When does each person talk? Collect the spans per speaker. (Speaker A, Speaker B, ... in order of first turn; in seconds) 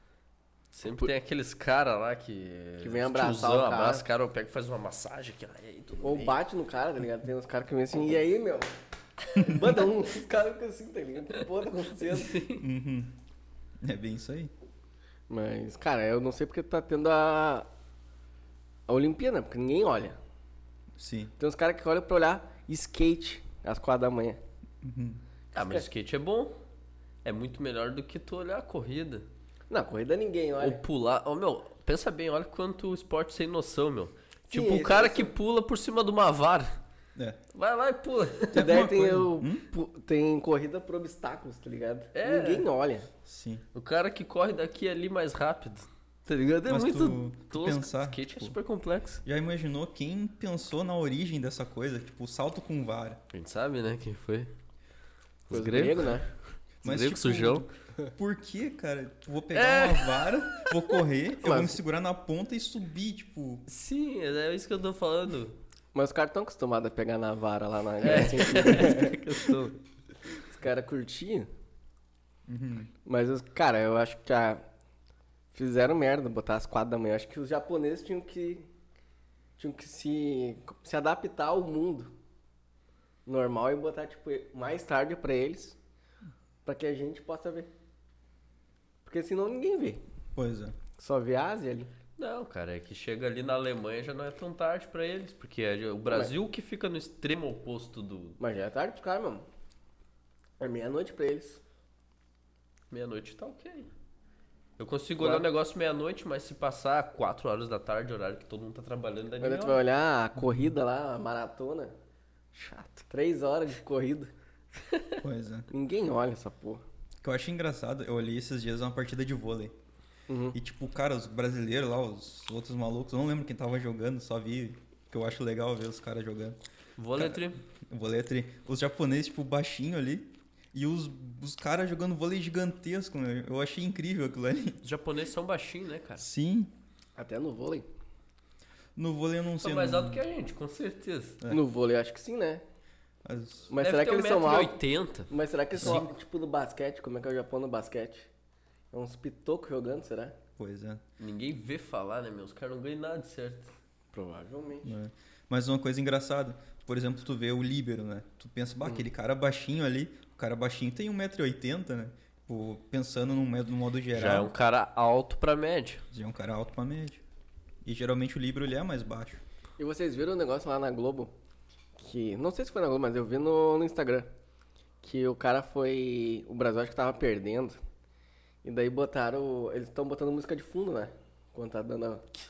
Speaker A: 0.7-6.4, 12.0-12.7, 25.5-26.6, 27.2-29.3, 30.6-36.8, 37.5-38.7, 42.1-42.7, 43.8-49.2, 53.3-54.5, 55.5-56.3, 56.8-57.7, 59.5-61.0, 63.7-65.6, 68.0-69.8, 92.2-98.4, 102.9-103.9, 104.8-109.8, 112.5-112.9, 114.9-115.2, 127.0-127.6, 134.8-136.2, 139.6-141.4, 143.8-146.1, 151.2-153.7, 164.1-166.0
Speaker B: 2.8-4.0, 6.0-8.8, 9.3-12.4, 15.3-17.7, 18.9-20.2, 21.4-24.4, 25.6-25.8, 29.7-30.8, 34.5-35.3, 38.5-43.1, 55.5-56.3, 61.4-61.8, 65.9-69.3, 70.4-71.5, 73.0-74.7, 75.5-78.7, 79.6-82.1, 83.3-85.8, 86.7-87.7, 89.1-90.0, 91.0-91.9, 96.1-96.3, 98.4-99.4, 100.6-101.6, 105.2-105.5, 109.4-112.0, 113.0-114.3, 115.7-116.8, 120.3-120.6, 137.2-137.9, 141.5-142.6, 143.7-144.8, 145.3-148.3, 148.9-150.4, 154.1-154.9, 169.8-171.3, 172.0-174.3, 175.0-177.8, 178.6-182.2
Speaker C: 12.6-13.1, 13.8-14.5, 21.0-21.3, 24.8-25.2, 37.2-37.4, 38.5-39.6, 43.2-43.6, 46.7-48.5, 49.2-53.2, 56.8-63.6, 72.5-72.9, 90.4-90.8, 115.2-115.7, 117.2-119.7, 120.5-126.6, 127.2-134.8, 136.2-136.7, 139.0-140.2, 143.2-143.7, 145.8-146.1, 150.6-151.0, 154.8-164.5, 166.1-167.2, 167.8-169.4